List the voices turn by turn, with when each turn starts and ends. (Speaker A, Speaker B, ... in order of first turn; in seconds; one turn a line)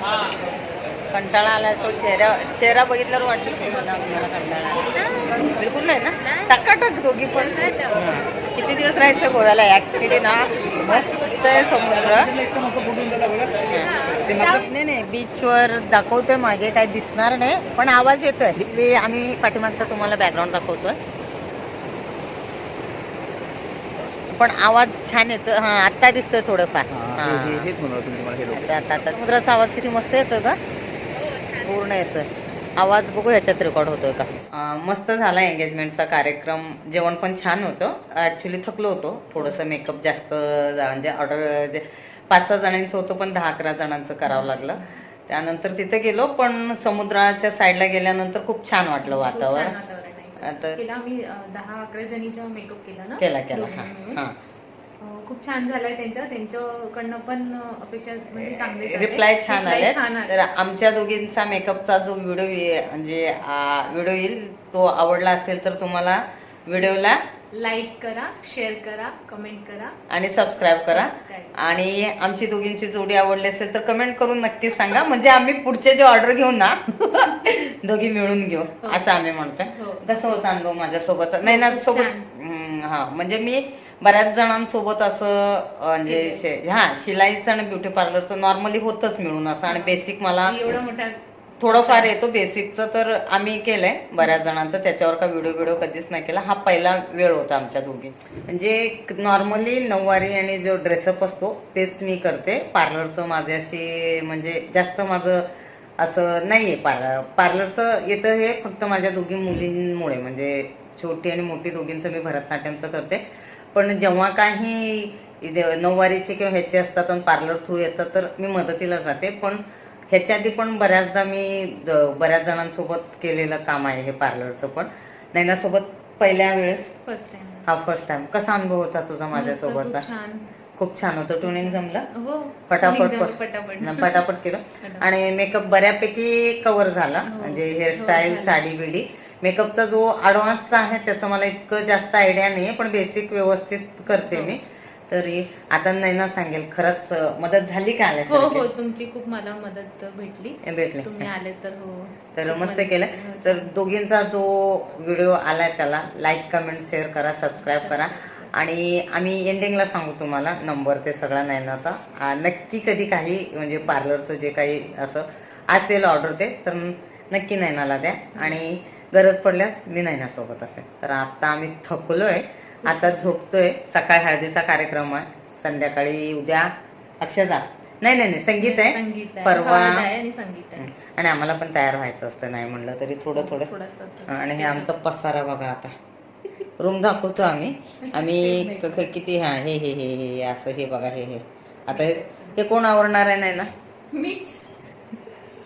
Speaker A: 1.1-12.3
Speaker B: 11.8-13.6
Speaker A: 13.7-21.0
Speaker A: 24.3-27.7
Speaker B: 26.9-28.7
Speaker A: 28.5-30.6
Speaker A: 31.5-49.8
Speaker C: 44.3-45.0
Speaker C: 49.0-54.2
Speaker A: 50.4-50.8
Speaker A: 53.2-54.3
Speaker C: 55.0-60.4
Speaker A: 58.4-67.2
Speaker C: 67.6-70.0
Speaker A: 70.1-90.6
Speaker C: 70.8-71.5
Speaker C: 78.8-79.1
Speaker C: 79.7-80.2
Speaker C: 81.4-82.3
Speaker C: 86.1-86.4
Speaker C: 89.7-92.1
Speaker A: 91.6-113.2
Speaker A: 113.7-126.9
Speaker C: 127.1-127.7
Speaker A: 127.7-130.0
Speaker C: 129.3-130.5
Speaker A: 130.8-132.1
Speaker C: 131.4-134.2
Speaker A: 132.7-148.7
Speaker C: 134.8-135.1
Speaker C: 137.3-138.6
Speaker C: 144.1-144.6
Speaker C: 148.3-153.7
Speaker A: 150.6-151.3
Speaker A: 152.3-176.7
Speaker C: 157.6-158.5
Speaker C: 172.8-173.3
Speaker A: 177.2-180.1
Speaker C: 178.6-180.9
Speaker A: 180.8-183.7
Speaker C: 183.3-185.0
Speaker A: 184.3-185.9
Speaker A: 186.8-193.7
Speaker C: 188.1-189.1
Speaker C: 191.9-192.6
Speaker C: 194.1-194.7